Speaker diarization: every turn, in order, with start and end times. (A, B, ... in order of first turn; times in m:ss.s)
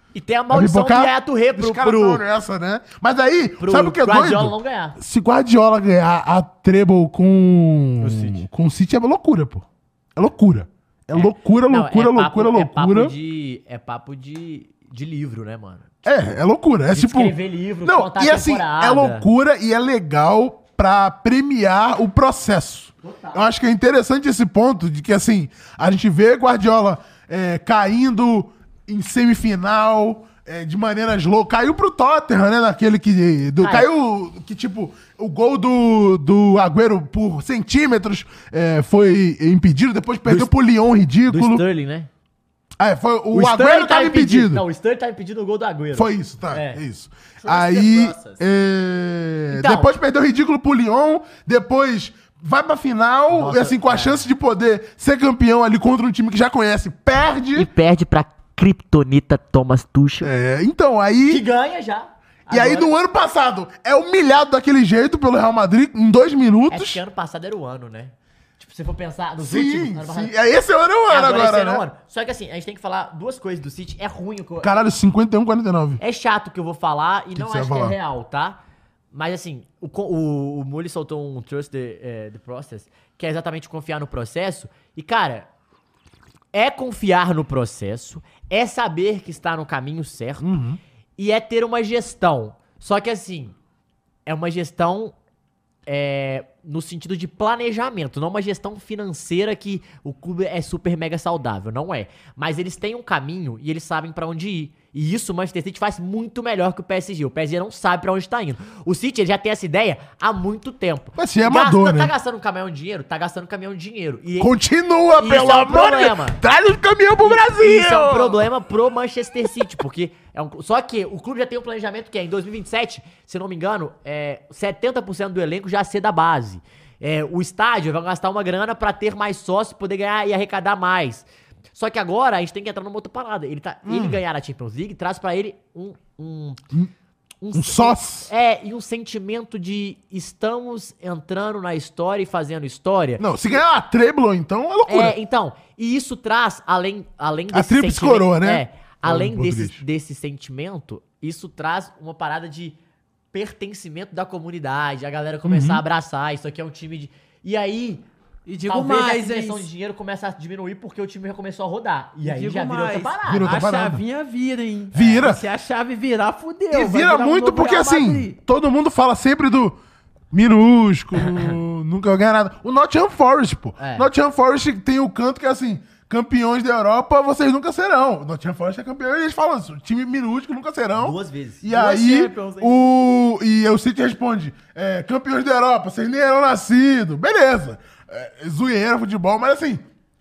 0:00.1-0:02.2 A
0:00.5-0:13.1 B
0:03.6-0:05.0 A
0:08.0-0:08.4 A
0:11.1-0:15.9 A
0:16.0-0:41.6 B
0:16.9-0:19.2 A
0:23.0-0:23.4 A
0:33.6-0:33.9 A
0:41.3-0:42.1 A
0:42.8-0:44.6 B
0:43.3-0:46.8 A
0:45.9-0:57.7 B
0:47.4-0:48.4 C
0:49.5-0:49.9 A
0:53.3-0:54.2 A
0:57.5-1:00.3 A
1:00.2-1:01.4 B
1:01.3-1:02.9 A
1:02.5-1:07.0 B
1:06.7-1:10.3 A
1:09.4-1:11.9 B
1:11.1-1:14.7 A
1:14.6-1:16.0 B
1:16.0-1:18.6 A
1:17.3-1:18.0 B
1:19.1-1:25.5 A
1:26.5-1:30.5 A
1:30.4-1:30.8 B
1:31.2-1:33.6 A
1:34.2-1:35.1 A
1:35.8-1:54.5 A
1:51.2-1:52.1 B
1:54.4-1:58.4 B
1:55.1-1:56.4 A
1:57.2-2:16.6 A
2:13.8-2:14.2 B
2:17.4-2:23.6 A
2:17.5-2:18.3 B
2:23.2-2:25.2 B
2:24.9-2:32.8 A
2:27.5-2:29.8 B
2:33.3-2:38.0 A
2:35.4-2:35.8 B
2:38.4-2:39.7 C
2:38.7-2:43.6 A
2:42.2-2:48.4 C
2:43.3-2:44.0 B
2:44.9-2:45.4 B
2:46.7-2:49.8 B
2:50.3-3:09.8 B
2:53.8-2:54.1 A
3:00.9-3:02.1 A
3:01.7-3:02.7 C